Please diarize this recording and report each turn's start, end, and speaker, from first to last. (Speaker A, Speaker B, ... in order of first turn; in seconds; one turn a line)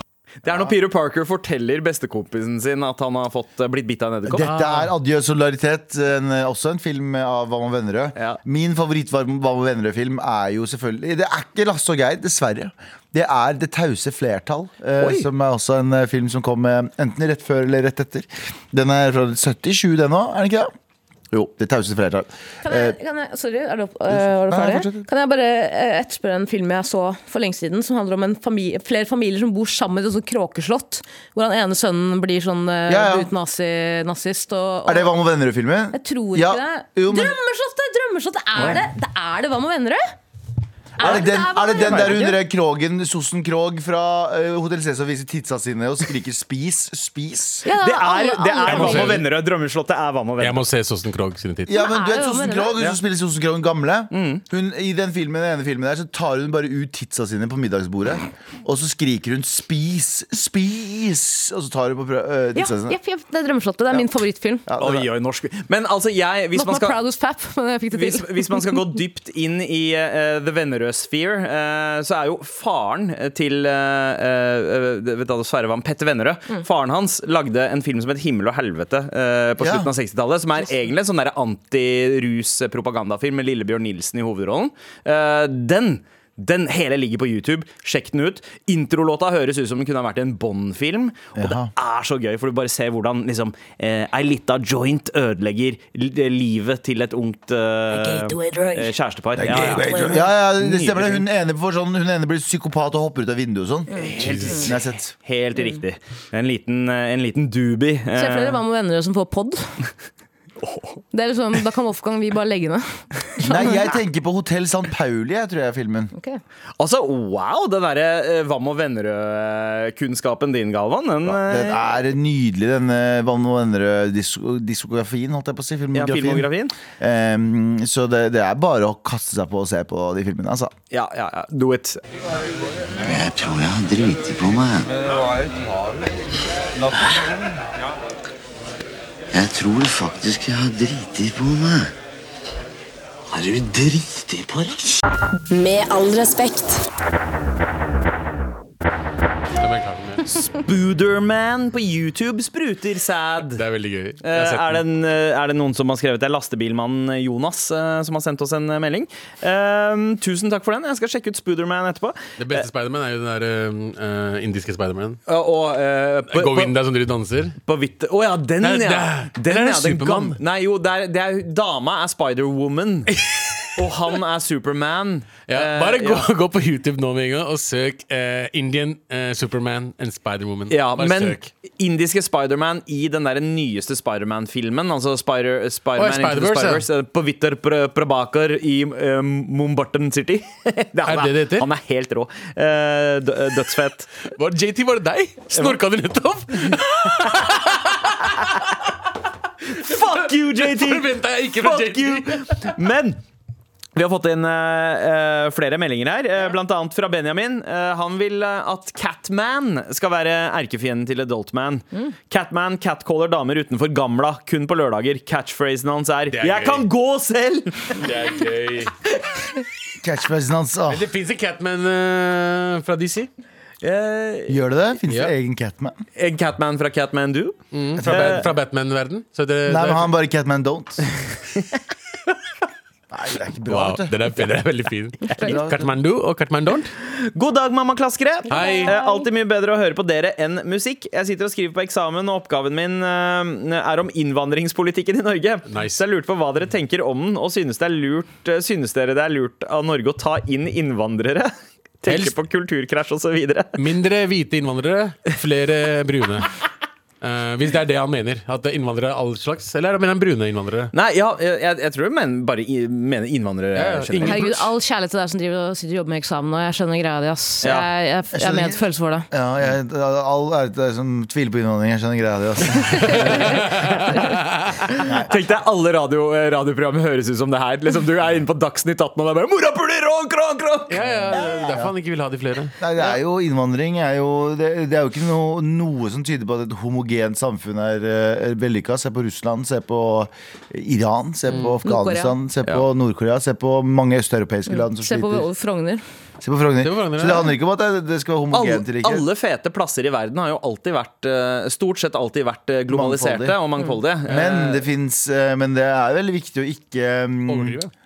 Speaker A: 0.4-4.5
Speaker B: 0.5-0.7
Speaker B: 4.2-20.7
Speaker C: 4.4-4.9
Speaker A: 15.0-15.3
Speaker B: 21.3-22.9
Speaker D: 22.6-35.1
Speaker B: 24.1-25.1
Speaker B: 32.9-33.3
Speaker B: 34.9-37.4
Speaker D: 35.9-40.0
Speaker D: 41.0-42.4
Speaker B: 41.0-47.6
Speaker A: 41.9-42.2
Speaker D: 47.6-49.2
Speaker A: 47.8-50.6
Speaker C: 48.6-49.2
Speaker C: 50.4-51.7
Speaker B: 51.7-63.0
Speaker D: 51.7-52.8
Speaker A: 54.1-54.4
Speaker D: 62.5-64.7
Speaker B: 64.7-65.1
Speaker A: 64.8-67.0
Speaker D: 66.5-68.8
Speaker A: 67.9-101.2
Speaker B: 79.6-79.9
Speaker B: 91.3-91.7
Speaker E: 97.9-98.9
Speaker B: 99.3-105.1
Speaker C: 99.5-100.0
Speaker E: 99.8-100.1
Speaker A: 104.0-108.6
Speaker C: 104.2-104.7
Speaker D: 108.2-109.7
Speaker A: 110.6-111.0
Speaker D: 111.1-114.0
Speaker B: 113.4-116.1
Speaker A: 116.8-121.8
Speaker B: 121.2-130.7
Speaker A: 125.9-126.8
Speaker A: 130.9-132.0
Speaker F: 133.0-134.9
Speaker F: 139.3-141.9
Speaker F: 143.3-145.0
Speaker E: 145.5-146.8
Speaker C: 149.5-150.6
Speaker A: 150.6-153.6
Speaker C: 153.6-154.8
Speaker A: 154.2-162.7
Speaker C: 162.4-165.2
Speaker A: 165.3-166.7
Speaker C: 166.3-167.6
Speaker A: 167.6-173.2
Speaker C: 168.6-170.4
Speaker C: 173.1-173.5
Speaker A: 173.8-176.3
Speaker C: 175.5-181.4
Speaker A: 180.7-194.1
Speaker C: 185.9-186.8
Speaker C: 191.1-191.7
Speaker C: 194.3-198.6
Speaker A: 195.5-195.8
Speaker A: 199.7-203.2
Speaker C: 199.9-202.5
Speaker A: 203.9-218.0
Speaker C: 216.3-216.8
Speaker C: 217.9-218.9
Speaker B: 220.0-221.1
Speaker C: 220.9-223.3
Speaker A: 223.8-224.6
Speaker B: 224.5-226.0
Speaker A: 226.2-228.5
Speaker C: 227.7-230.1
Speaker B: 227.9-228.5
Speaker B: 229.7-231.1
Speaker B: 233.1-234.3
Speaker C: 233.7-236.9
Speaker B: 235.4-235.9
Speaker A: 237.0-253.8
Speaker D: 238.5-239.3
Speaker C: 238.5-238.9
Speaker C: 245.7-246.0
Speaker C: 252.1-252.3
Speaker C: 253.8-256.5
Speaker C: 257.2-260.9
Speaker A: 260.9-264.4
Speaker C: 263.7-264.7
Speaker D: 264.2-269.3
Speaker A: 267.6-267.9
Speaker B: 268.3-273.7
Speaker D: 272.9-274.2
Speaker C: 273.1-274.8
Speaker B: 275.0-275.3
Speaker A: 275.3-281.4
Speaker C: 280.9-282.8
Speaker B: 281.3-281.9
Speaker B: 282.8-295.5
Speaker C: 291.5-291.8
Speaker D: 291.8-292.3
Speaker D: 294.7-296.0
Speaker B: 296.4-299.2
Speaker C: 296.8-297.5
Speaker A: 298.5-304.9
Speaker B: 302.9-303.6
Speaker B: 304.2-307.8
Speaker C: 307.5-307.9